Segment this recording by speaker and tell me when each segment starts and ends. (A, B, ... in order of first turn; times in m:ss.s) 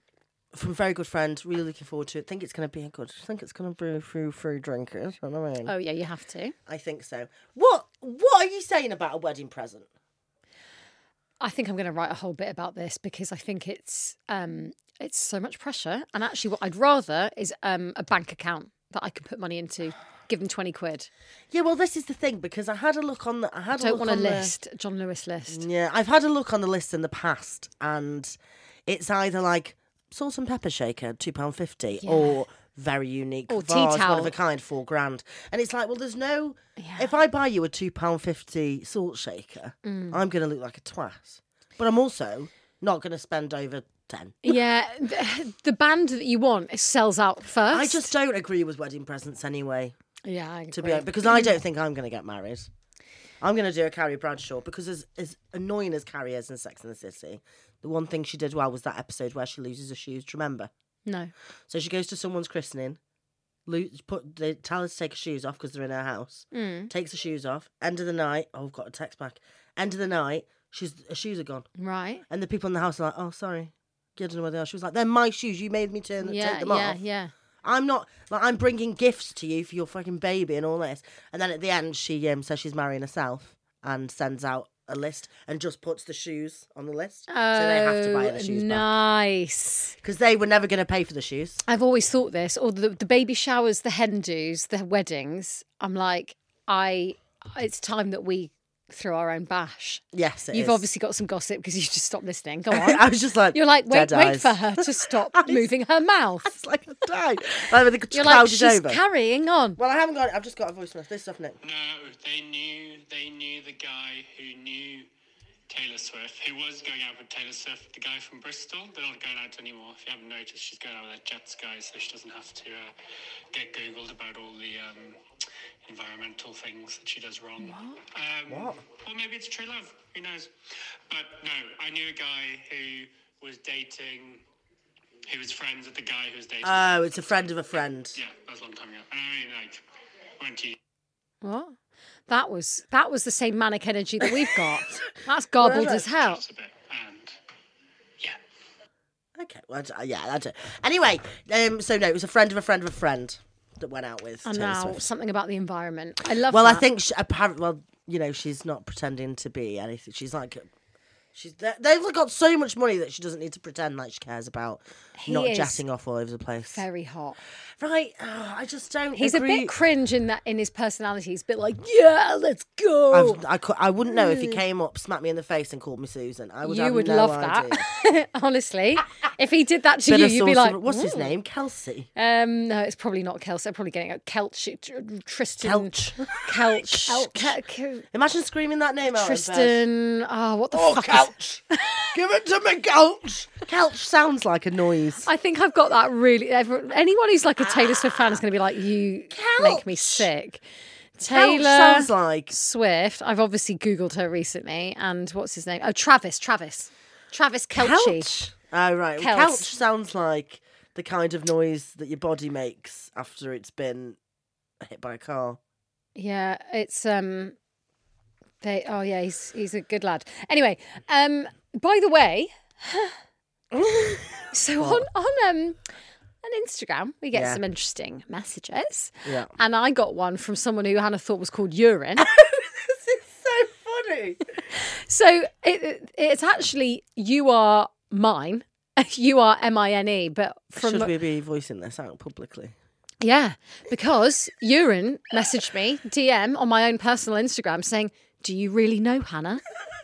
0:00.5-0:05.7 A
0:05.7-0:06.6 B
0:06.7-0:09.9 A
0:11.4-0:21.1 B
0:21.5-0:24.5 A
0:23.8-0:25.6 B
0:25.5-0:44.6 A
0:32.0-0:32.4 B
0:33.5-0:34.3 B
0:36.8-0:37.1 B
0:39.8-0:40.2 B
0:44.4-0:48.1 B
0:47.7-0:50.0 A
0:50.2-0:51.6 B
0:50.7-0:52.7 A
0:53.4-1:00.7 A
1:01.1-1:01.3 B
1:01.7-1:03.0 A
1:03.7-1:11.7 A
1:06.5-1:06.9 B
1:11.8-1:12.2 B
1:12.3-1:17.0 A
1:16.2-1:17.3 B
1:17.6-1:28.9 A
1:27.3-1:30.0 B
1:30.0-1:31.6 A
1:31.6-1:46.5 B
1:40.1-1:40.8 A
1:42.7-1:45.7 A
1:46.4-1:49.0 A
1:48.1-1:49.8 B
1:49.8-1:51.6 A
1:51.6-1:55.1 C
1:55.7-2:02.9 C
2:03.5-2:05.2 C
2:05.8-2:10.5 C
2:07.6-2:08.0 B
2:08.5-2:08.8 A
2:11.1-2:14.4 C
2:15.3-2:17.0 C
2:16.6-2:18.2 A
2:18.2-2:19.8 C
2:20.4-2:20.8 C
2:21.4-2:21.8 B
2:22.3-2:26.4 B
2:24.2-2:24.6 A
2:25.6-2:26.1 A
2:26.0-2:27.4 C
2:29.4-2:35.1 A
2:34.4-2:36.8 B
2:36.5-2:40.7 A
2:41.3-2:46.8 A
2:45.2-2:45.8 B
2:46.7-2:47.4 B
2:47.8-2:49.8 A
2:49.2-2:53.4 B
2:53.1-2:57.9 A
2:54.1-2:54.6 B
2:56.6-3:01.4 B
3:00.1-3:02.1 A
3:02.2-3:08.1 B
3:05.6-3:07.6 A
3:08.1-3:09.8 A
3:09.1-3:12.1 B
3:10.7-3:15.3 A
3:15.2-3:20.6 B
3:19.3-3:20.3 A
3:21.2-3:28.3 B
3:21.2-3:22.6 A
3:27.8-3:34.2 A
3:29.2-3:29.7 B
3:34.8-3:35.6 A
3:36.2-3:37.6 B
3:38.6-3:43.2 B
3:43.7-3:45.1 A
3:44.5-3:45.8 B
3:46.4-3:52.3 B
3:47.3-3:47.6 A
3:49.2-3:49.5 A
3:52.2-3:54.5 A
3:54.7-4:01.1 B
4:00.8-4:02.8 A
4:03.2-4:09.6 B